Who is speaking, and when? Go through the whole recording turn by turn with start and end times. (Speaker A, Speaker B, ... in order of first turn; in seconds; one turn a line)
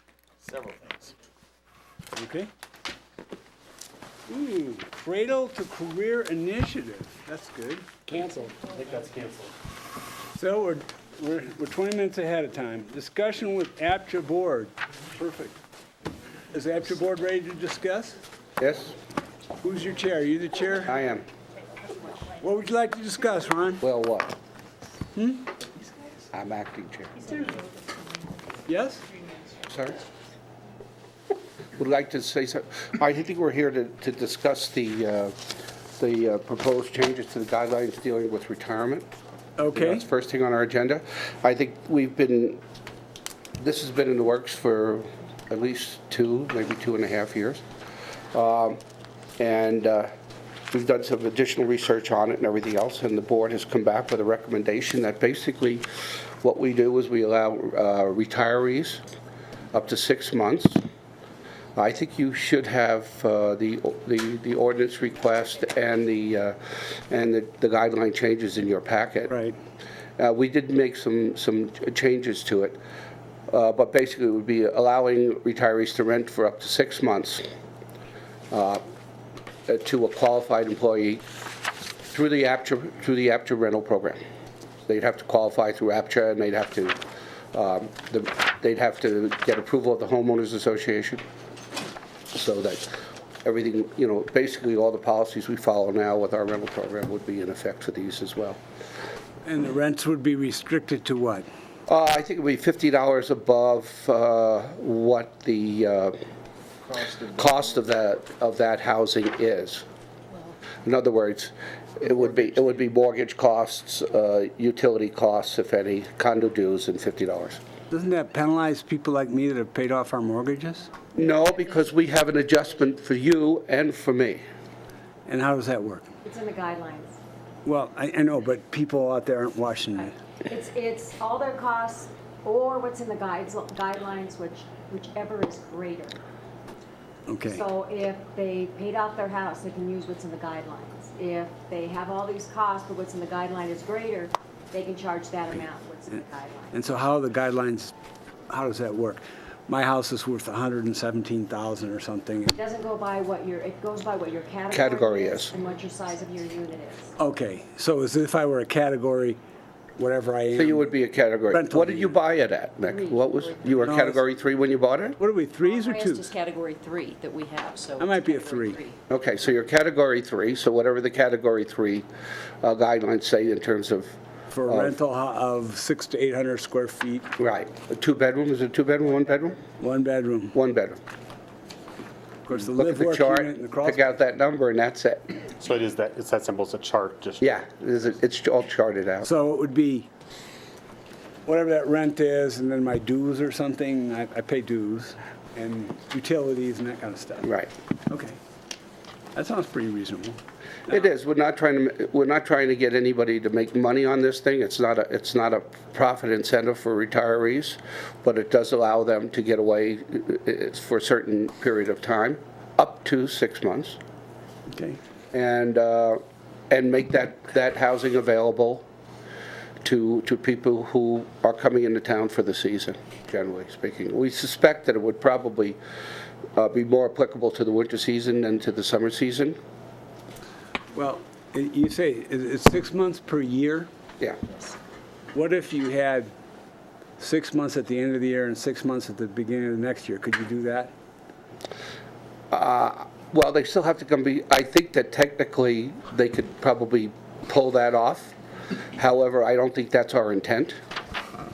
Speaker A: 0.4-1.1
Speaker B: 2.1-2.5
Speaker B: 4.3-8.6
Speaker A: 8.9-9.5
Speaker B: 10.3-15.6
Speaker B: 16.5-18.2
Speaker C: 18.6-19.0
Speaker B: 19.6-21.0
Speaker C: 20.8-21.3
Speaker B: 22.4-23.8
Speaker C: 23.8-24.4
Speaker B: 25.1-25.4
Speaker C: 26.3-27.4
Speaker B: 28.7-29.0
Speaker C: 29.6-30.0
Speaker C: 31.8-35.4
Speaker C: 36.0-39.1
Speaker B: 39.6-40.0
Speaker C: 39.7-42.6
Speaker C: 43.6-47.6
Speaker C: 48.3-48.8
Speaker C: 49.4-50.1
Speaker C: 50.7-59.0
Speaker C: 59.7-60.8
Speaker C: 61.8-69.3
Speaker B: 69.3-69.6
Speaker C: 70.2-72.8
Speaker C: 73.5-77.4
Speaker C: 78.5-78.8
Speaker C: 79.7-81.2
Speaker C: 82.1-84.2
Speaker C: 84.9-87.0
Speaker C: 87.5-91.2
Speaker C: 92.3-98.6
Speaker B: 99.4-101.5
Speaker C: 101.9-106.2
Speaker C: 106.9-109.8
Speaker C: 110.8-117.6
Speaker B: 117.9-120.9
Speaker C: 121.1-124.4
Speaker D: 121.2-122.1
Speaker B: 125.3-126.1
Speaker D: 126.2-127.2
Speaker B: 127.7-130.1
Speaker D: 130.5-136.2
Speaker B: 137.3-137.6
Speaker D: 137.4-146.8
Speaker B: 146.8-147.9
Speaker B: 148.5-152.5
Speaker D: 152.5-157.2
Speaker C: 154.7-155.5
Speaker B: 157.2-159.4
Speaker B: 160.0-160.9
Speaker C: 160.5-165.2
Speaker B: 161.5-162.1
Speaker D: 162.9-164.0
Speaker B: 163.8-164.2
Speaker B: 165.2-166.3
Speaker E: 165.6-169.0
Speaker B: 168.0-168.8
Speaker C: 169.1-172.1
Speaker C: 172.6-174.1
Speaker B: 174.5-177.3
Speaker C: 174.7-175.0
Speaker C: 177.4-179.6
Speaker B: 179.8-180.6
Speaker C: 180.5-181.0
Speaker B: 182.5-184.0
Speaker C: 182.6-185.4
Speaker A: 185.6-187.6
Speaker C: 187.4-189.3
Speaker B: 189.2-190.1
Speaker B: 191.5-197.5
Speaker C: 197.4-197.7
Speaker B: 198.1-198.4
Speaker B: 199.3-200.4
Speaker C: 200.9-214.0
Speaker B: 214.7-215.0
Speaker C: 215.3-216.2
Speaker C: 216.7-218.8
Speaker C: 219.8-225.8
Speaker C: 226.6-229.6
Speaker B: 230.9-233.9
Speaker B: 235.3-236.3
Speaker B: 237.2-240.9
Speaker C: 242.5-248.3
Speaker C: 249.0-250.8